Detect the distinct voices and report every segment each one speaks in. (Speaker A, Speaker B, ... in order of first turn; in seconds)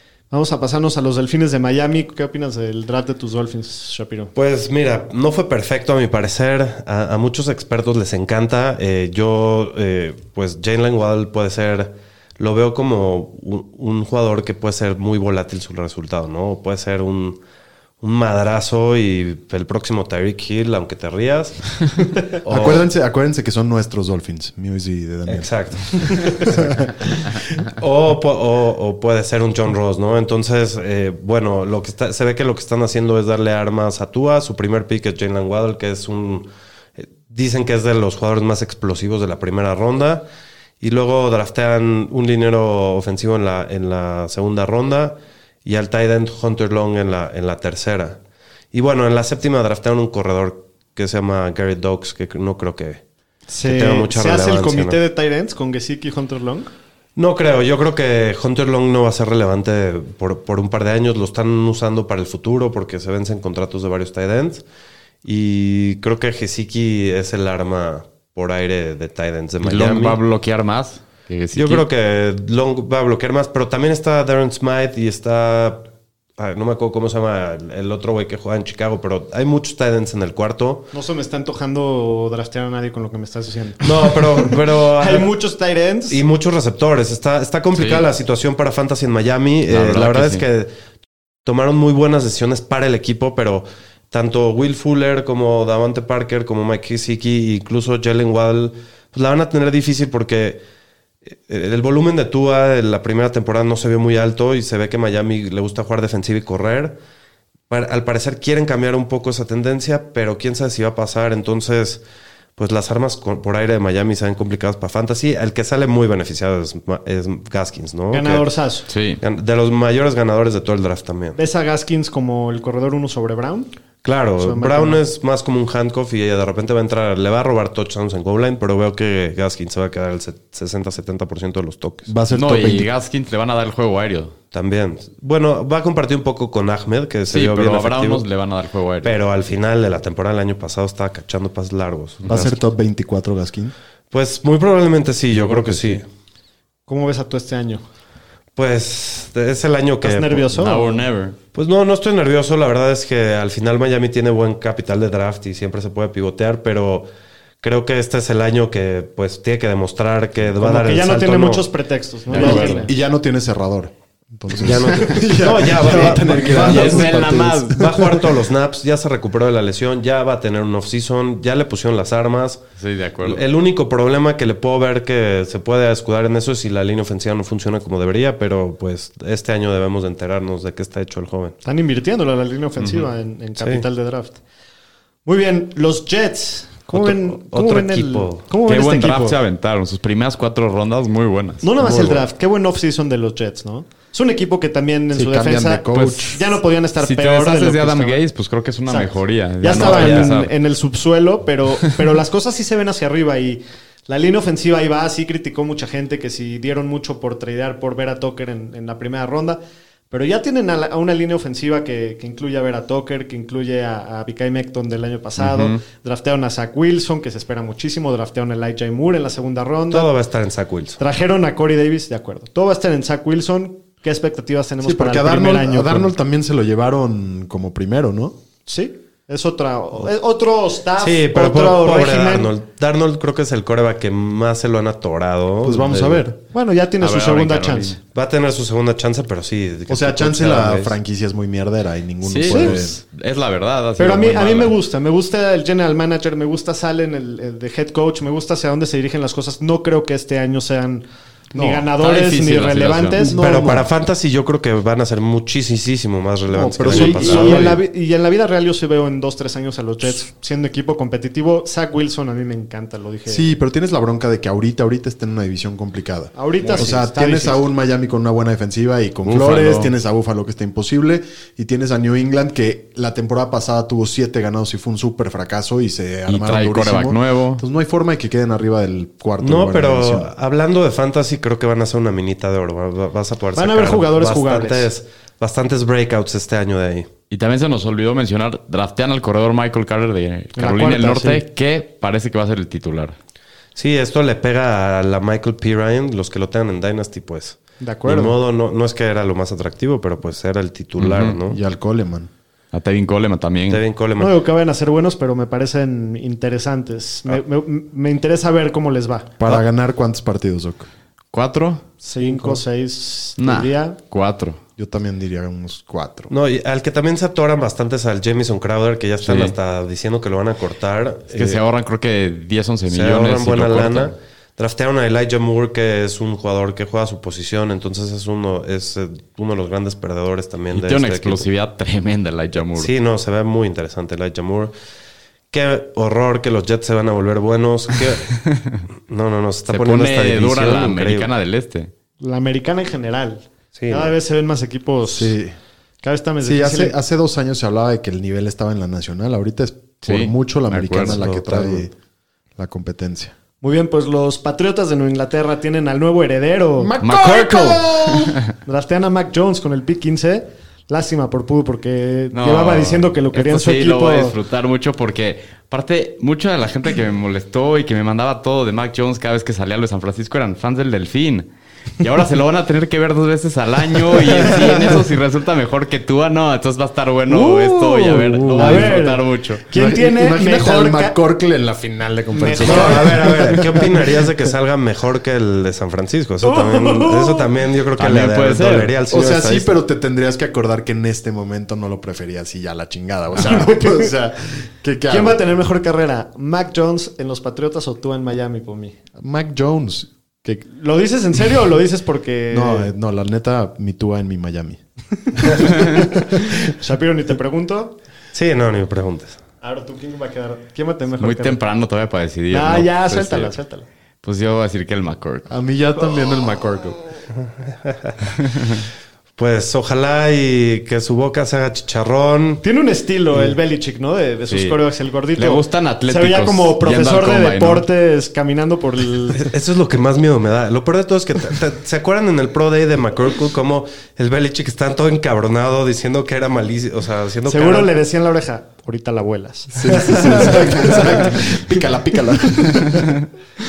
Speaker A: 0.3-4.3, 53.5-56.7, 80.9-86.2, 118.1-118.9, 121.4-123.7, 124.4-125.0, 146.9-147.8, 150.0-151.0, 160.6-162.9, 181.6-184.4, 185.3-189.4, 191.6-198.2, 198.9-209.6, 210.1-220.1, 221.0-226.1, 228.7-232.5, 236.5-238.0, 242.5-242.8, 244.0-253.4, 256.9-263.5, 266.4-267.7, 283.6-284.9, 290.6-291.4, 297.8-298.4, 304.2-309.3, 312.0-314.0, 342.2-345.4, 346.0-347.0, 353.6-357.0, 358.6-364.4, 377.4-381.2, 382.3-383.3, 386.4-387.5, 393.4-394.1, 395.1-399.0, 400.7-402.9, 405.5-407.9, 409.6-411.6, 412.5-413.9, 422.6-429.5, 437.5-443.1
Speaker B: 4.3-17.4, 18.0-22.9, 25.3-40.3, 40.8-48.2, 48.7-53.0, 53.6-55.0, 57.2-64.6, 65.2-70.2, 71.5-75.9, 76.4-80.9, 83.8-85.3, 86.1-90.7, 91.5-100.6, 101.3-107.0, 107.7-112.0, 112.6-118.5, 119.2-121.4, 124.0-132.1, 134.5-138.2, 139.0-142.5, 144.1-146.1, 148.6-150.5, 151.5-157.1, 157.6-161.7, 164.6-172.6, 173.2-181.6, 183.6-183.8, 186.9-188.4, 191.8-192.2, 199.7-200.3, 219.9-221.0, 231.0-236.2, 238.1-241.0, 253.3-257.8, 279.4-287.1, 293.8-301.6, 303.7-304.4, 316.3-321.6, 322.9-331.5, 332.8-334.7, 335.5-338.4, 339.1-341.3, 343.8-344.1, 351.0-351.9, 382.6-389.7, 408.3-409.4, 417.9-418.2, 419.4-422.6, 429.3-437.9
Speaker C: 22.4-27.4, 132.1-132.9, 142.3-143.7, 162.3-168.4, 195.1-196.4, 224.8-228.4, 235.6-236.3, 239.9-243.0, 251.5-251.8, 253.2-253.9, 256.5-257.8, 263.3-280.3, 301.5-302.3, 309.4-310.9, 314.8-316.3, 345.1-345.6, 346.4-351.9, 352.6-353.4, 356.8-358.4, 378.0-379.0, 379.7-384.2, 389.1-395.4, 399.2-400.6, 402.5-406.5, 415.5-417.0, 439.7-443.1
Speaker D: 69.6-71.8, 87.7-88.1, 89.7-90.4, 118.9-119.2, 132.3-134.3, 137.3-139.2, 142.2-142.5, 145.3-146.0, 150.6-151.4, 162.3-162.9, 166.2-167.9, 172.8-173.4, 188.7-191.7, 195.9-196.4, 197.0-200.5, 215.4-215.8, 237.0-238.0, 242.2-244.7, 252.0-253.2, 257.3-257.6, 269.2-269.9, 276.3-277.6, 287.3-293.2, 301.0-301.4, 302.7-303.8, 311.3-311.8, 313.4-314.6, 319.2-319.6, 321.3-324.1, 330.7-332.9, 338.5-338.8, 339.7-341.9, 350.1-351.2, 357.0-358.4, 362.3-371.5, 372.0-379.6, 388.0-388.9, 411.2-413.5, 414.2-415.5, 424.5-424.8, 425.4-427.9